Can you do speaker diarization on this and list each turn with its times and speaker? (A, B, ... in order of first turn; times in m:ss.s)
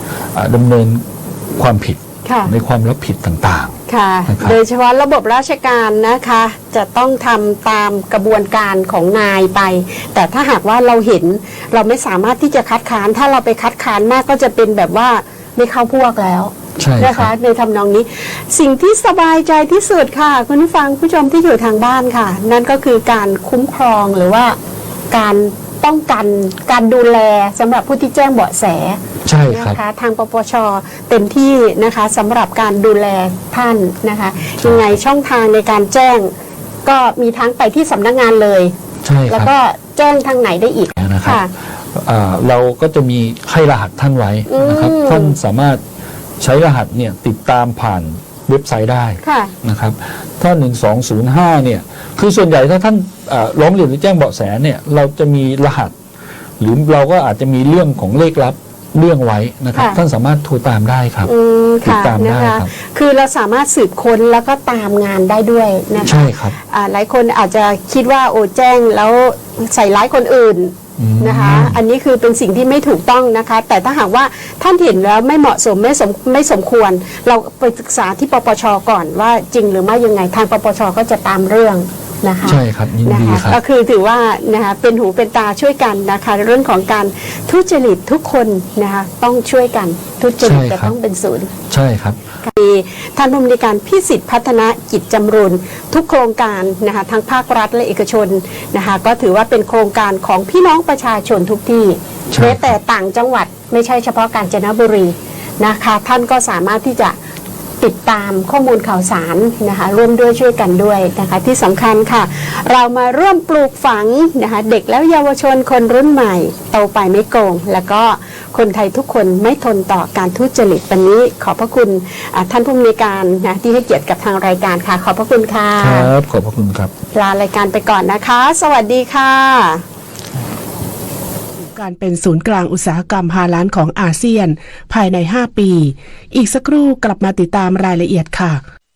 0:00.3-0:03.8 A
0:02.2-0:02.5 B
0:03.9-0:24.6 B
0:04.3-0:04.6 A
0:16.8-0:17.3 A
0:25.1-0:36.3 B
0:29.2-0:29.8 A
0:34.6-0:35.0 A
0:36.8-0:38.7 B
0:39.0-0:39.5 A
0:39.3-0:41.5 B
0:41.0-0:41.4 A
0:41.9-0:45.8 A
0:44.5-0:45.4 B
0:46.4-0:55.9 A
0:49.2-0:49.5 B
0:56.6-1:01.3 A
1:01.2-1:31.5 B
1:01.8-1:02.7 A
1:06.0-1:06.6 A
1:11.0-1:11.8 A
1:22.4-1:23.6 A
1:30.4-1:31.0 A
1:31.7-1:32.2 A
1:32.4-1:47.2 B
1:42.3-1:42.7 A
1:47.8-2:06.1 B
2:05.8-2:06.9 A
2:07.1-2:09.8 B
2:11.6-2:18.6 C